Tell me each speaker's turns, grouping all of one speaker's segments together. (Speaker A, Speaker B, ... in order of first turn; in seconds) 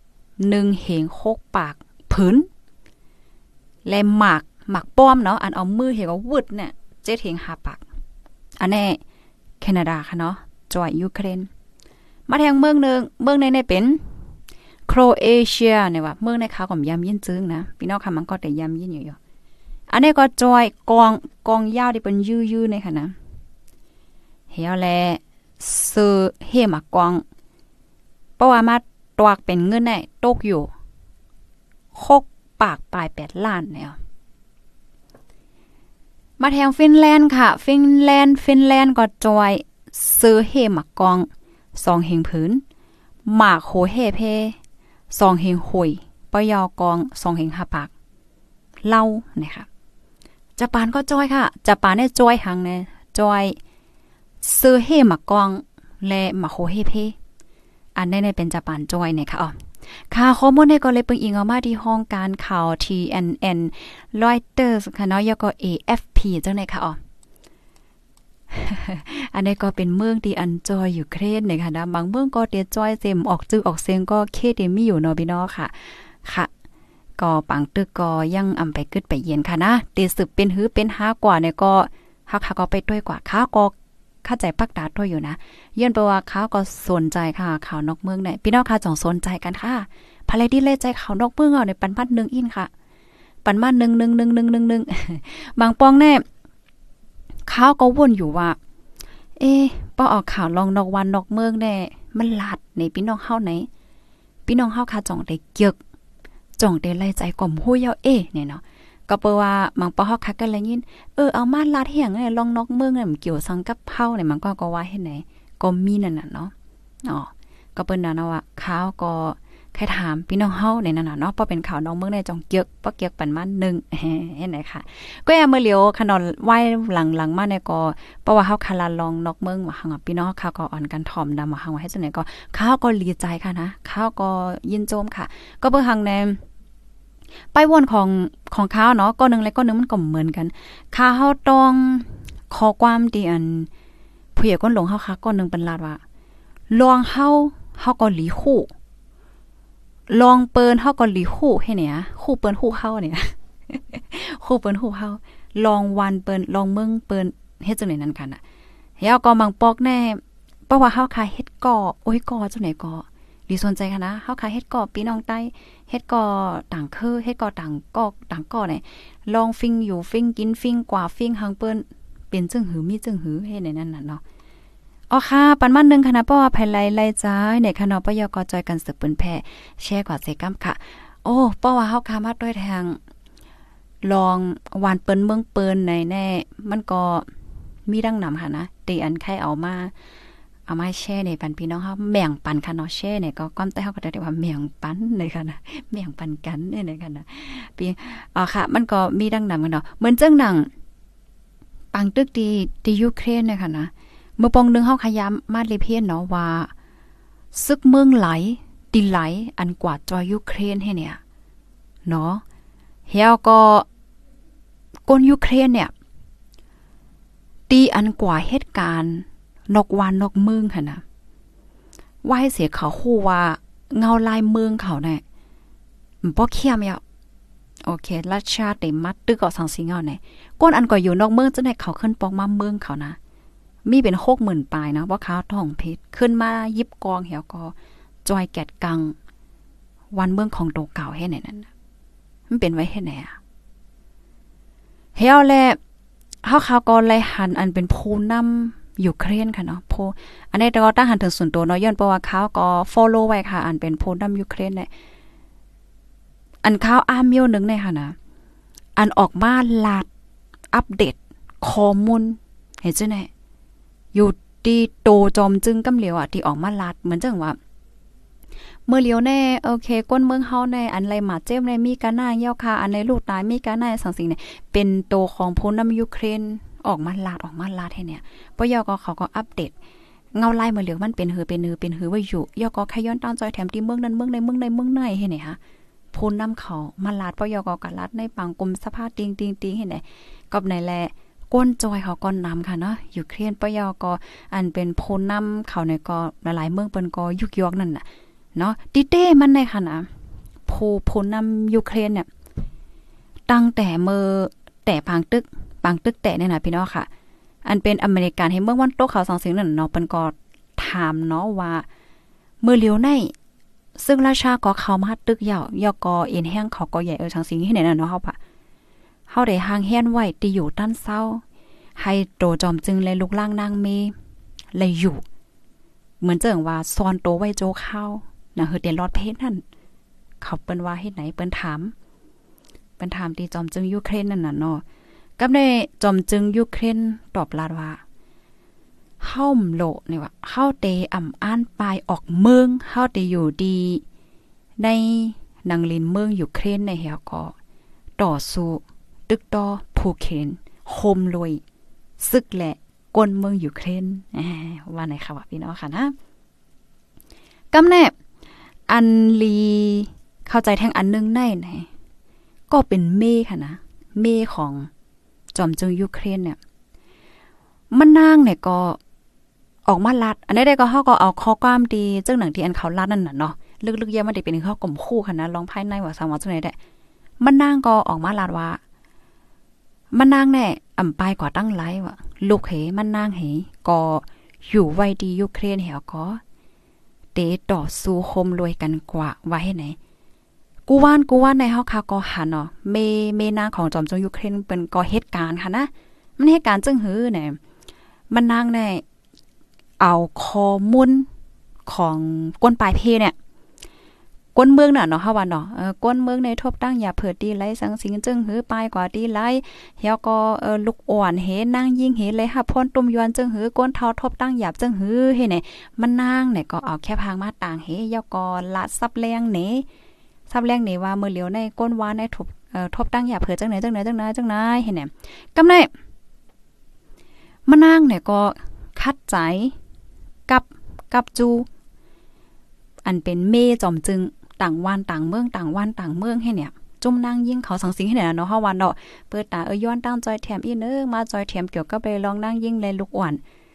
Speaker A: 0.4-2.5, 3.8-7.8, 8.6-9.0, 9.6-11.5, 12.3-14.0, 14.9-19.2, 19.9-23.1, 24.5-27.2, 28.4-30.7, 31.9-34.0, 36.4-42.6, 43.3-44.6, 45.1-47.9, 48.9-49.7, 50.6-53.6, 54.4-57.1, 58.0-59.6, 60.1-67.0, 68.5-76.5, 77.2-83.7, 84.2-92.7, 93.4-96.2, 97.5-98.6, 99.4-103.7, 104.5-105.8, 106.6-116.5, 117.0-136.4, 137.5-143.7, 144.3-146.0, 146.7-148.7, 150.1-158.4, 159.0-174.2, 175.1-183.0, 184.0-187.2, 187.9-189.9, 190.7-200.7, 201.9-206.7, 207.5-211.2, 212.1-212.4, 213.1-213.8, 215.1-215.9, 217.7-221.0, 222.2-225.2, 226.2-227.0, 227.8-233.2, 233.8-237.7, 238.2-239.2, 240.1-241.7, 242.5-243.4, 245.2-245.8, 246.4-254.9, 256.6-258.1, 259.0-260.1, 260.7-263.3, 264.1-267.6, 268.9-279.7, 280.4-285.6, 286.1-298.0, 298.6-300.1, 300.6-302.3, 303.5-307.1, 307.6-311.9, 312.6-313.3, 314.0-318.4, 319.3-321.4, 322.0-324.1, 324.7-325.2, 326.2-329.6, 330.4-331.9, 333.0-334.8, 335.4-338.0, 339.2-344.0, 344.8-347.5, 348.2-351.6, 352.2-356.1, 357.7-358.1, 358.9-361.9, 362.7-364.9, 365.5-366.6, 367.9-369.0, 369.9-376.8, 377.4-378.8, 380.1-386.4, 387.3-390.0, 390.9-397.6, 398.3-399.0, 400.0-401.3, 401.9-403.3, 404.5-419.9, 420.5-425.9, 427.7-429.7, 430.5-431.7, 433.0-443.4